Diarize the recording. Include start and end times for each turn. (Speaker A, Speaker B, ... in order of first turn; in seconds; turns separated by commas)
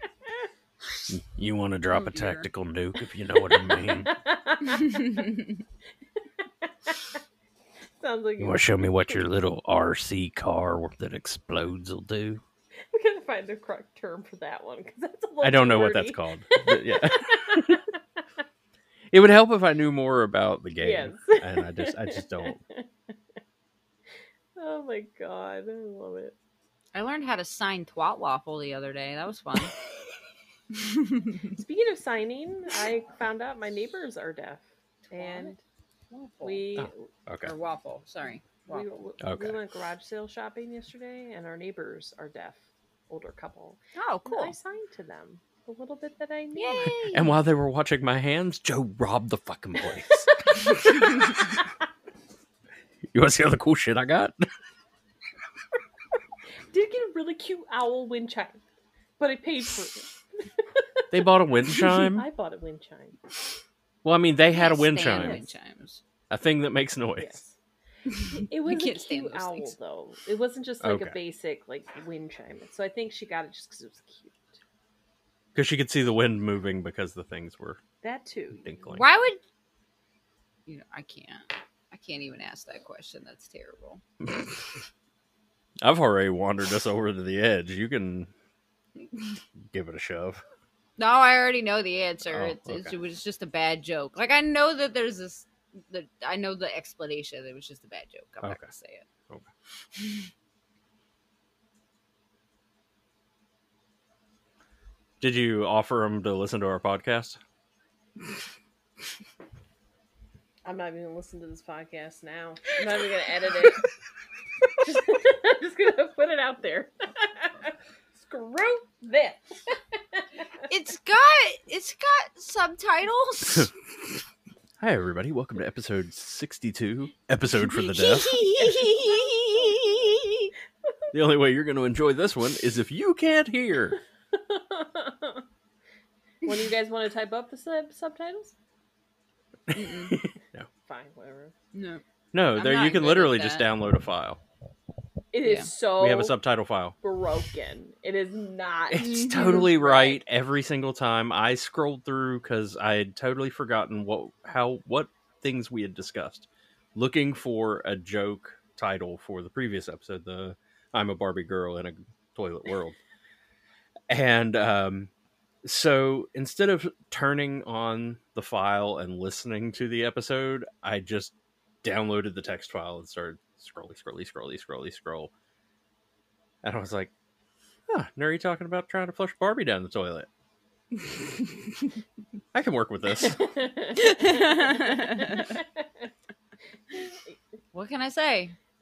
Speaker A: 1.1-4.1, Speaker B: 1.9-2.5, Speaker C: 3.7-5.3, Speaker B: 4.7-5.6, Speaker C: 6.6-7.2, Speaker C: 8.0-9.2, Speaker A: 8.4-12.4, Speaker C: 12.9-17.9, Speaker A: 15.4-17.9, Speaker A: 19.1-22.6, Speaker C: 20.8-22.9, Speaker C: 24.6-26.4, Speaker B: 26.9-29.7, Speaker B: 30.8-31.4, Speaker C: 31.5-35.6, Speaker B: 35.1-35.5, Speaker B: 36.1-36.9, Speaker C: 36.4-37.1, Speaker A: 36.8-37.5, Speaker B: 37.4-38.9, Speaker C: 38.7-47.0, Speaker A: 39.2-39.6, Speaker B: 44.0-44.5, Speaker B: 46.5-47.4, Speaker A: 47.1-50.5, Speaker A: 53.1-54.4, Speaker C: 56.7-58.6, Speaker C: 59.2-63.2, Speaker A: 61.1-62.3, Speaker A: 64.0-65.4, Speaker B: 64.5-66.0, Speaker C: 65.0-65.4, Speaker A: 66.3-67.4, Speaker C: 67.2-67.5, Speaker B: 68.1-69.7, Speaker C: 68.2-74.6, Speaker A: 70.8-71.2, Speaker A: 75.5-77.8, Speaker C: 78.0-78.7, Speaker A: 78.6-79.1, Speaker B: 78.9-79.4, Speaker B: 80.7-84.0, Speaker A: 84.2-84.5, Speaker A: 85.8-88.3, Speaker A: 89.7-90.4, Speaker B: 91.0-99.0, Speaker A: 92.3-92.9, Speaker A: 98.4-98.7, Speaker B: 100.0-100.3, Speaker A: 105.2-107.4, Speaker C: 110.7-113.9, Speaker C: 114.8-120.3, Speaker B: 120.7-123.7, Speaker A: 124.8-128.4, Speaker B: 127.7-130.5, Speaker C: 128.7-129.9, Speaker A: 131.1-134.0, Speaker C: 134.3-135.4, Speaker C: 136.4-138.6, Speaker A: 139.7-140.7, Speaker B: 139.7-140.2, Speaker C: 140.9-141.5, Speaker B: 141.7-142.0, Speaker A: 142.3-144.4, Speaker B: 142.5-143.7, Speaker C: 145.3-146.4, Speaker B: 145.4-145.7, Speaker A: 146.0-147.0, Speaker C: 147.0-150.2, Speaker A: 148.9-163.0, Speaker B: 149.0-149.7, Speaker A: 164.1-165.1, Speaker A: 165.6-175.3, Speaker A: 176.6-177.1, Speaker A: 177.9-180.3, Speaker A: 182.5-183.4, Speaker C: 183.2-185.8, Speaker B: 183.9-185.6, Speaker B: 187.7-188.6